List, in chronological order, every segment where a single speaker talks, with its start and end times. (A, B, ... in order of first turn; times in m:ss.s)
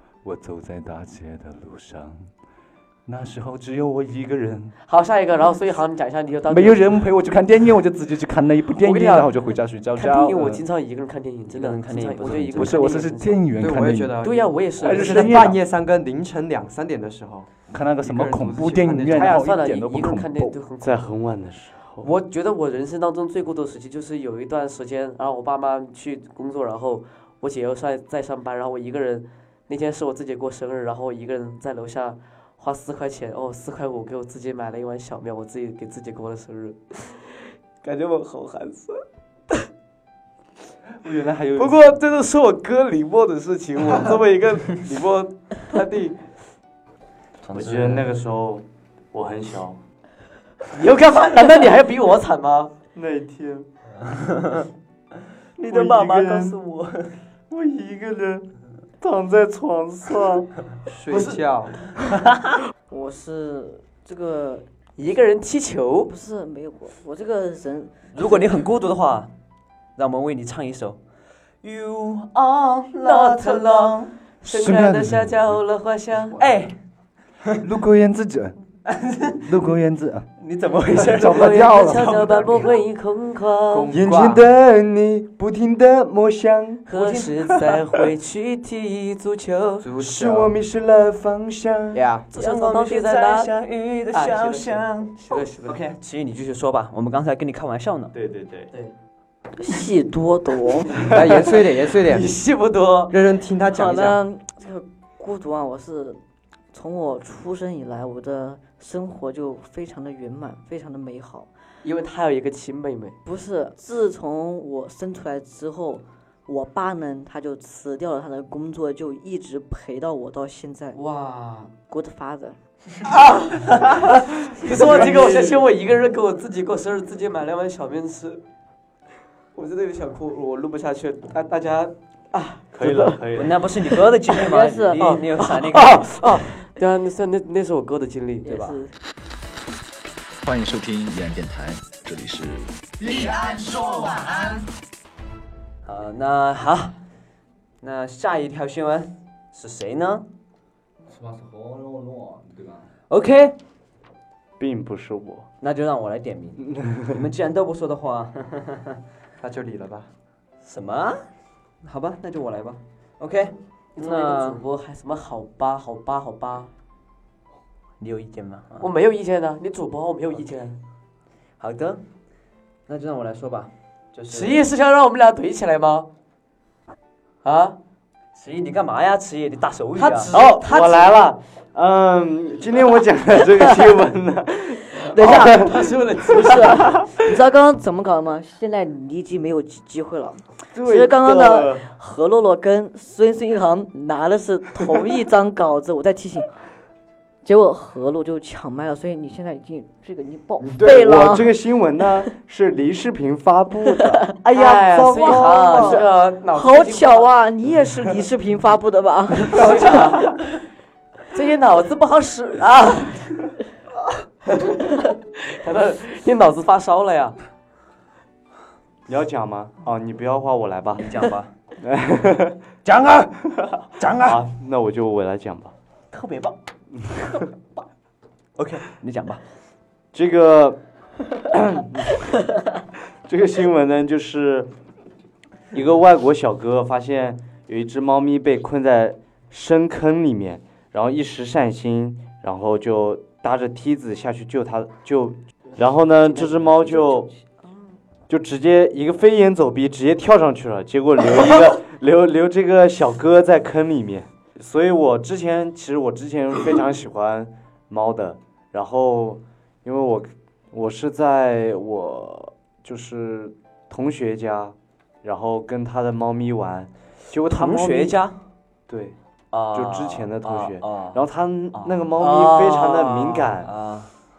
0:00.2-0:02.3 A
0:03.1-0:04.8 A
0:04.9-0:07.0 B
0:06.5-0:10.6 A
0:08.8-0:09.3 B
0:10.0-0:13.4 B
0:11.5-0:13.1 C
0:12.5-0:14.2 A
0:13.6-0:17.5 D
0:14.2-0:15.6 B
0:14.8-0:15.6 A
0:17.7-0:20.6 A
0:18.0-0:19.4 D
0:19.1-0:21.1 B
0:20.8-0:22.1 E
0:22.0-0:37.3 B
0:37.8-0:39.7 B
0:41.0-0:42.0 A
0:41.6-0:46.2 B
0:47.4-0:48.0 C
0:47.5-0:49.8 E
0:50.7-0:52.7 B
0:52.9-0:53.7 E
0:54.1-0:54.7 C
0:55.6-0:57.2 C
0:55.6-0:56.6 E
0:57.5-0:58.5 E
0:59.0-1:00.5 E
1:00.9-1:01.8 D
1:01.1-1:01.4 B
1:02.9-1:04.7 F
1:05.0-1:06.1 B
1:06.1-1:08.4 F
1:08.1-1:09.3 C
1:10.0-1:11.0 C
1:11.6-1:14.1 C
1:13.0-1:16.4 B
1:14.4-1:15.6 A
1:16.4-1:16.8 C
1:17.6-1:18.6 A
1:18.9-1:19.5 C
1:19.4-1:20.3 A
1:20.4-1:22.8 C
1:20.9-1:22.1 A
1:21.2-1:23.9 B
1:23.7-1:24.5 D
1:23.9-1:26.9 E
1:26.9-1:29.9 B
1:26.9-1:27.6 C
1:29.8-1:30.6 D
1:30.0-1:32.1 E
1:31.9-1:32.3 D
1:32.3-1:33.5 B
1:32.4-1:38.2 C
1:34.1-1:35.8 B
1:38.1-1:38.7 E
1:39.6-1:41.1 F
1:41.1-1:42.4 D
1:41.4-1:43.1 B
1:43.1-1:44.2 D
1:43.7-1:46.2 F
1:46.7-1:51.5 F
1:51.8-1:53.2 B
1:53.2-2:01.0 F
2:00.9-2:01.7 B
2:01.9-2:02.6 F
2:03.1-2:08.4 B
2:04.7-2:05.6 E
2:09.5-2:13.2 B
2:12.7-2:13.6 E
2:13.4-2:16.4 C
2:14.4-2:15.0 F
2:15.0-2:18.7 B
2:18.4-2:18.9 F
2:20.4-2:22.7 G
2:25.8-2:27.0 C
2:27.8-2:30.3 C
2:31.1-2:32.9 A
2:33.1-2:33.6 C
2:34.6-2:35.5 E
2:35.6-2:39.0 C
2:36.7-2:37.0 E
2:39.4-2:40.1 D
2:40.6-2:41.3 C
2:41.8-2:44.6 C
2:44.0-2:46.7 B
2:48.0-2:48.9 C
2:48.8-2:50.8 B
2:51.6-2:52.0 C
2:52.9-2:54.6 C
2:54.3-2:56.1 B
2:57.4-2:57.8 B
2:58.4-3:00.3 C
3:00.0-3:01.2 B
3:00.3-3:05.9 E
3:05.1-3:05.7 F
3:05.1-3:07.0 B
3:06.2-3:16.5 F
3:10.7-3:11.9 E
3:17.4-3:21.6 F
3:20.6-3:26.1 E
3:24.5-3:27.3 B
3:25.1-3:30.1 F
3:29.5-3:30.4 B
3:31.3-3:33.3 B
3:34.5-3:37.4 B
3:39.1-3:41.1 E
3:41.0-3:41.5 C
3:41.8-3:42.6 E
3:42.8-3:44.4 C
3:43.6-3:45.7 E
3:46.1-3:46.6 C
3:48.6-3:49.4 C
3:50.1-3:50.8 E
3:51.5-3:52.1 E
3:53.2-3:54.7 E
3:55.7-4:07.3 E
4:05.7-4:07.3 B
4:08.3-4:28.2 E
4:27.5-4:28.4 C
4:28.9-4:29.2 E
4:29.5-4:34.1 C
4:29.7-4:33.7 E
4:32.3-4:33.0 B